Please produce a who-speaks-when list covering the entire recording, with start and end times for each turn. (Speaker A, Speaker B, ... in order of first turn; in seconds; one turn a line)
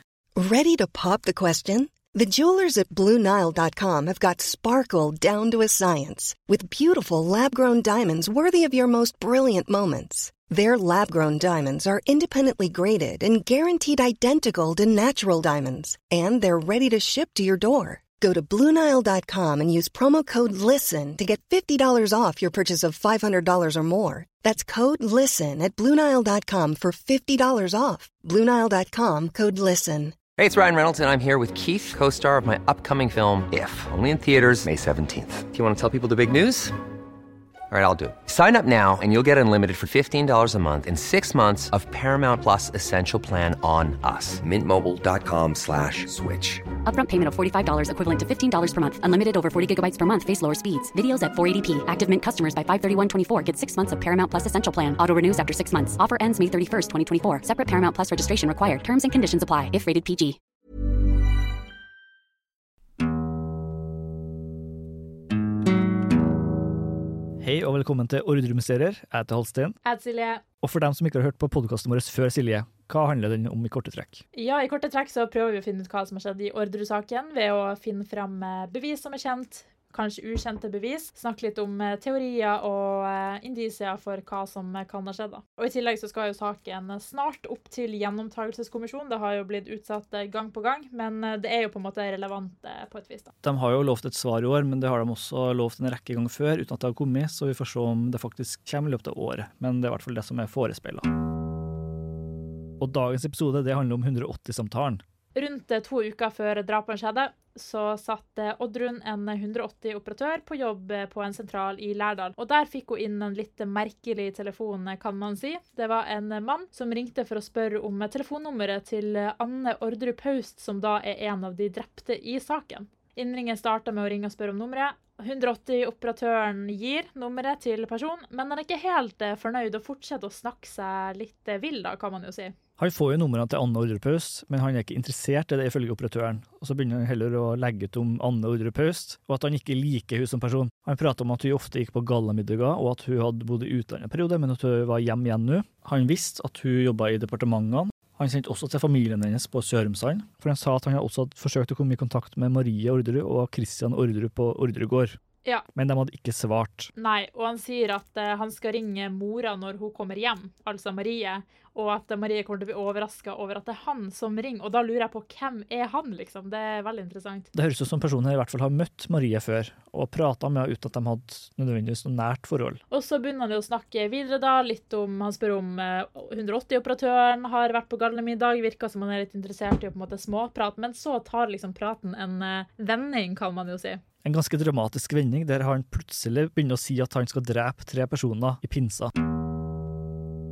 Speaker A: 0.3-30.2
Speaker B: 30.4-36.8
Speaker B: 37.7-46.7
Speaker C: 46.8-60.4
Speaker D: 67.4-69.8
Speaker E: 69.8-70.4
Speaker D: 70.6-74.2
Speaker E: 74.3-93.3
Speaker D: 93.4-101.1
Speaker D: 102.8-105.0
Speaker E: 105.3-132.5
Speaker D: 132.8-155.2
Speaker D: 155.7-156.9
Speaker E: 157.0-167.5
Speaker D: 167.5-172.8
Speaker E: 172.9-184.0
Speaker D: 184.2-189.1